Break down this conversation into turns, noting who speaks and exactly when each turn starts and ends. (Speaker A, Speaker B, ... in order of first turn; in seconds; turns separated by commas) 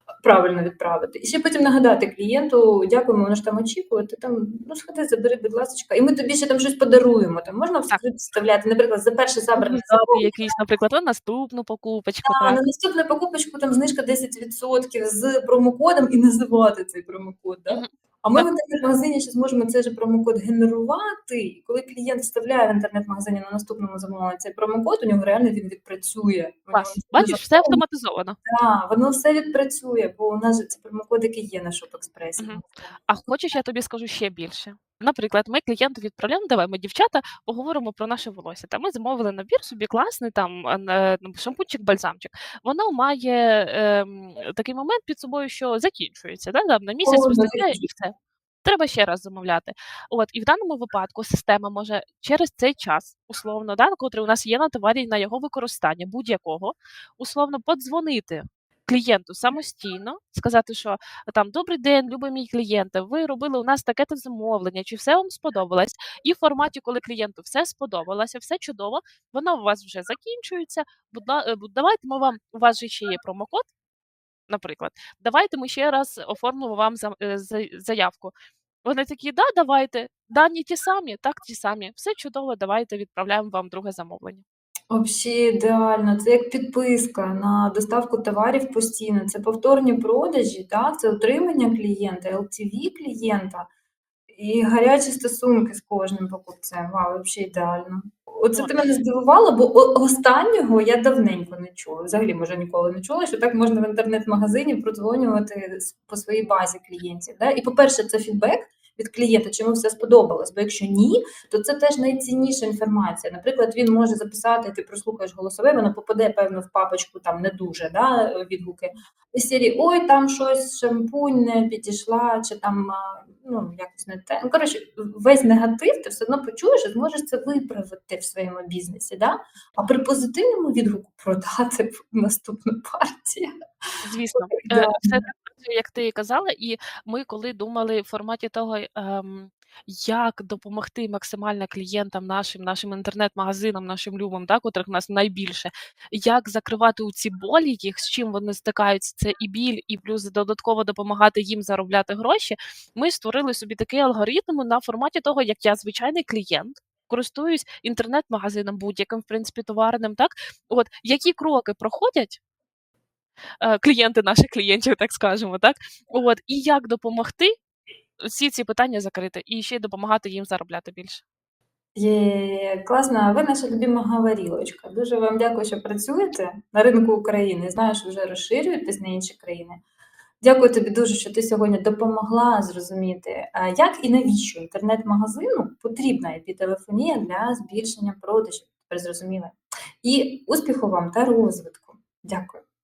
Speaker A: 0.2-10.3, Speaker B: 9.6-12.6, Speaker A: 12.3-27.8, Speaker B: 17.7-18.5, Speaker B: 26.7-28.4, Speaker A: 28.5-32.7, Speaker B: 32.4-48.1, Speaker A: 47.0-47.9, Speaker B: 48.6-73.7, Speaker B: 74.5-78.3, Speaker B: 78.8-84.4, Speaker A: 84.9-93.7, Speaker A: 94.3-133.5, Speaker B: 98.5-98.9, Speaker B: 134.0-162.4, Speaker A: 134.4-135.2, Speaker B: 163.6-167.5, Speaker B: 168.3-171.2, Speaker A: 172.0-179.8, Speaker A: 180.4-192.6